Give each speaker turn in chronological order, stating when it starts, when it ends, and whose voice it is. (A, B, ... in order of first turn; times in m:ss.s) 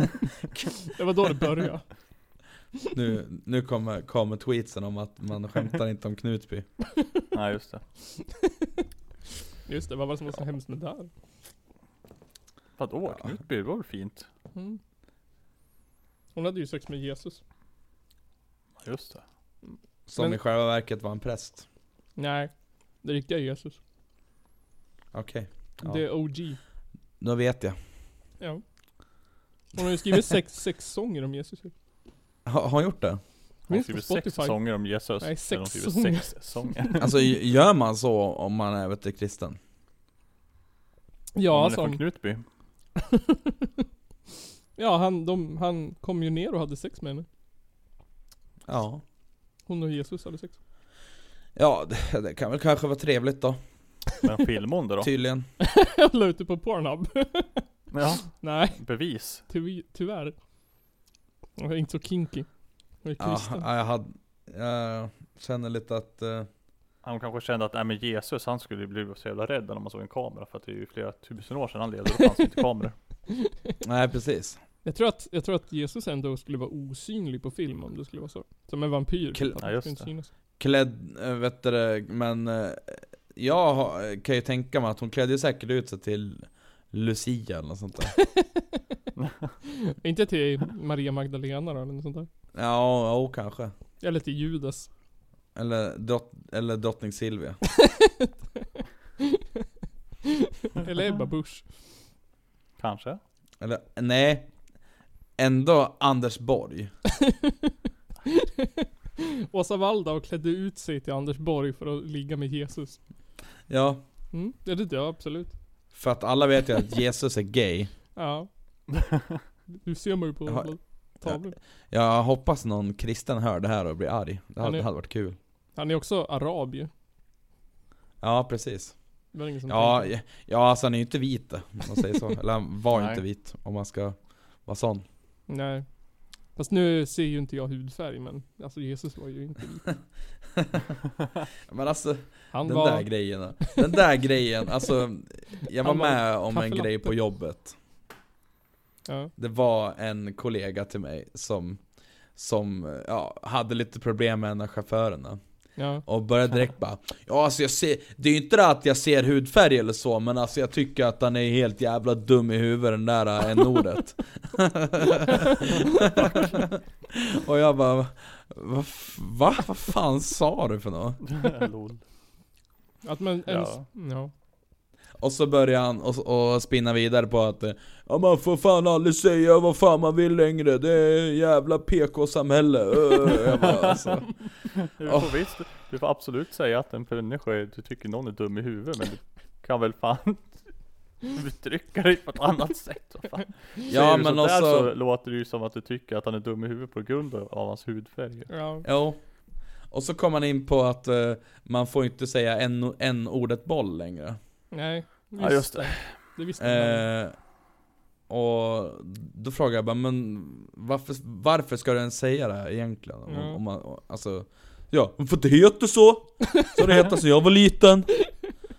0:00.9-0:01.8 A
0:02.9-0:06.6 B
0:07.3-0:07.8 C
0:09.6-0:11.1 A
0:12.8-0:14.3 C
0:16.3-0:17.4 A
0:18.8-0:19.2 C
0:20.1-0:21.6 B
0:22.2-0:22.5 A
0:23.0-0:23.8 A
0:25.1-0:26.0 B
0:25.8-0:26.6 A
0:27.2-0:27.8 B
0:29.7-0:31.7 A
0:32.4-0:33.2 B
0:33.7-0:37.1 C
0:33.7-0:34.6 A
0:35.2-0:37.0 A
0:37.0-0:39.6 B
0:41.3-0:42.0 A
0:41.5-0:42.4 C
0:43.1-0:43.7 A
0:44.8-0:47.2 A
0:48.7-0:49.0 B
0:49.7-0:50.5 A
0:51.6-0:53.6 B
0:54.2-0:55.1 C
0:55.0-0:55.5 B
0:55.6-0:57.6 A
0:57.9-0:59.4 C
0:58.4-0:58.8 A
0:59.5-1:00.3 A
1:01.6-1:02.5 A
1:03.0-1:03.7 A
1:03.2-1:06.5 B
1:07.0-1:12.9 C
1:13.8-1:14.6 B
1:14.8-1:20.3 A
1:19.6-1:20.1 C
1:20.6-1:28.1 B
1:28.2-1:28.6 A
1:29.2-1:29.5 C
1:29.6-1:32.3 A
1:32.5-1:33.7 B
1:34.0-1:34.9 A
1:35.5-1:37.6 B
1:37.8-1:38.3 A
1:40.6-1:41.6 A
1:42.8-1:43.2 C
1:43.6-1:44.5 B
1:45.4-1:46.9 B
1:48.2-1:48.9 A
1:49.5-1:53.0 A
1:53.7-1:54.0 B
1:54.3-1:55.5 A
1:55.9-1:57.9 B
1:58.2-1:58.5 A
1:59.8-2:01.6 A
2:00.4-2:05.4 B
2:04.6-2:04.8 A
2:05.7-2:06.9 A
2:08.2-2:09.0 B
2:09.3-2:10.1 A
2:09.7-2:15.0 B
2:12.9-2:13.2 C
2:15.5-2:15.8 A
2:16.5-2:19.9 A
2:21.7-2:27.8 B
2:22.5-2:23.8 A
2:25.8-2:27.2 A
2:29.0-2:29.3 A
2:29.4-2:31.8 B
2:32.3-2:35.4 B
2:35.8-2:36.0 A
2:36.0-2:51.2 B
2:51.2-2:52.0 C
2:53.0-2:54.3 A
2:53.5-2:53.8 C
2:55.2-3:04.5 B
3:04.8-3:10.7 C
3:05.0-3:05.3 B
3:11.2-3:18.5 C
3:13.9-3:14.9 B
3:18.5-3:18.8 A
3:18.8-3:19.2 B
3:19.9-3:24.4 B
3:24.7-3:27.0 A
3:25.4-3:26.2 C
3:26.6-3:27.4 B
3:28.3-3:38.3 B
3:33.3-3:33.6 A